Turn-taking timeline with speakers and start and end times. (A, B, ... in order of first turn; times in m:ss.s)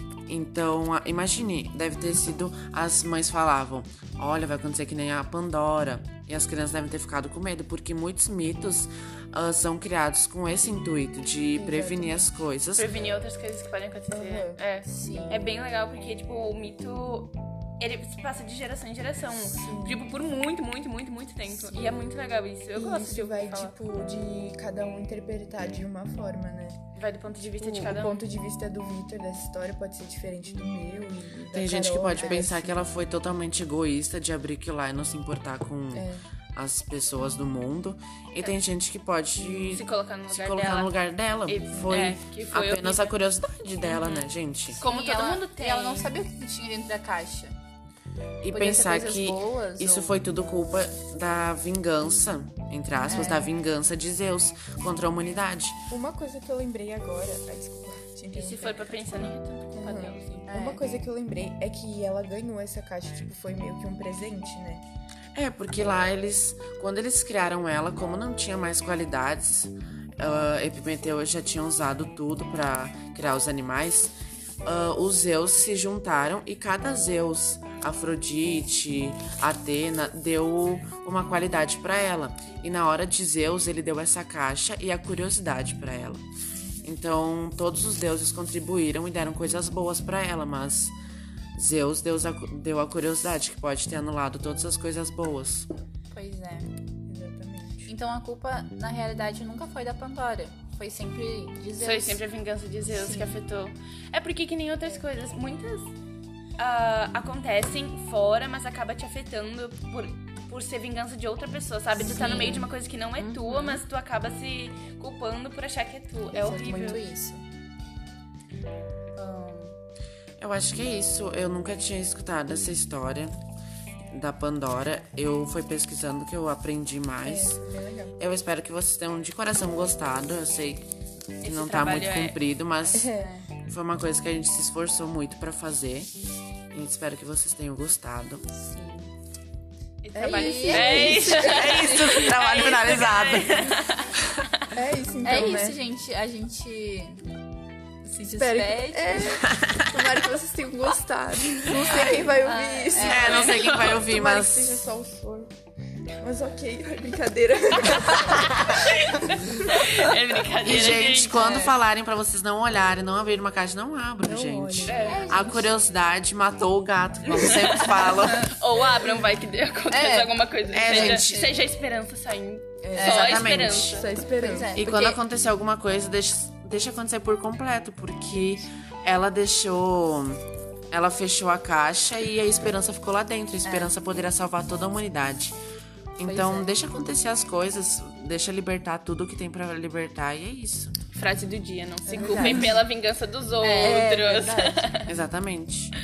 0:00.3-0:12.9 A
0:11.6-0:12.3 B
0:12.7-0:23.8 C
0:14.1-0:14.6 B
0:14.8-0:15.5 D
0:19.4-0:20.0 B
0:21.6-0:21.9 B
0:22.7-0:26.8 B
0:27.0-0:28.2 C
0:27.6-0:32.8 B
0:31.5-0:44.8 A
0:35.9-0:36.2 B
0:39.7-0:43.2 C
0:43.8-0:46.1 C
0:44.8-0:47.6 D
0:48.4-0:55.8 A
0:48.5-0:50.2 D
0:53.0-0:53.5 B
0:55.9-1:04.8 B
0:58.3-1:00.5 C
1:00.5-1:00.8 D
1:05.4-1:26.2 A
1:26.5-1:26.9 B
1:26.8-1:30.9 A
1:31.6-1:35.7 A
1:36.1-1:36.7 D
1:37.1-1:37.9 B
1:37.9-1:42.2 D
1:41.8-1:45.9 C
1:42.9-1:43.4 D
1:46.6-1:57.0 C
1:52.0-1:53.8 D
1:52.2-1:52.5 B
1:56.3-1:57.4 D
1:59.2-1:59.7 D
2:00.4-2:03.4 A
2:04.1-2:07.6 A
2:07.2-2:08.2 B
2:08.2-2:10.9 A
2:11.4-2:12.4 C
2:11.4-2:13.1 A
2:12.9-2:13.3 B
2:13.1-2:13.5 D
2:13.7-2:16.1 A
2:16.7-2:18.4 A
2:18.5-2:19.1 D
2:20.0-2:24.7 C
2:20.1-2:21.4 B
2:20.3-2:22.3 D
2:21.2-2:23.8 A
2:24.7-2:25.8 B
2:25.2-2:27.3 D
2:28.0-2:29.4 D
2:28.4-2:35.5 B
2:29.6-2:29.9 A
2:31.9-2:33.5 D
2:33.0-2:34.9 A
2:33.1-2:34.1 C
2:36.2-2:39.9 B
2:38.4-2:38.8 A
2:38.9-2:41.5 C
2:40.6-2:48.5 A
2:41.3-2:41.8 D
2:44.2-2:45.1 B
2:44.9-2:45.2 C
2:45.0-2:45.9 D
2:47.4-2:54.2 C
2:49.9-2:51.5 D
2:50.7-2:51.4 A
2:52.8-2:53.2 B
2:52.9-2:53.4 D
2:53.0-2:54.0 A
2:53.9-2:54.8 B
2:54.2-2:55.2 D
2:54.8-3:05.6 A
3:03.6-3:03.9 D
3:06.2-3:11.0 A
3:06.2-3:06.7 D
3:11.1-3:15.1 C
3:12.1-3:12.8 B
3:12.1-3:12.8 D
3:13.6-3:14.8 D
3:15.1-3:15.9 A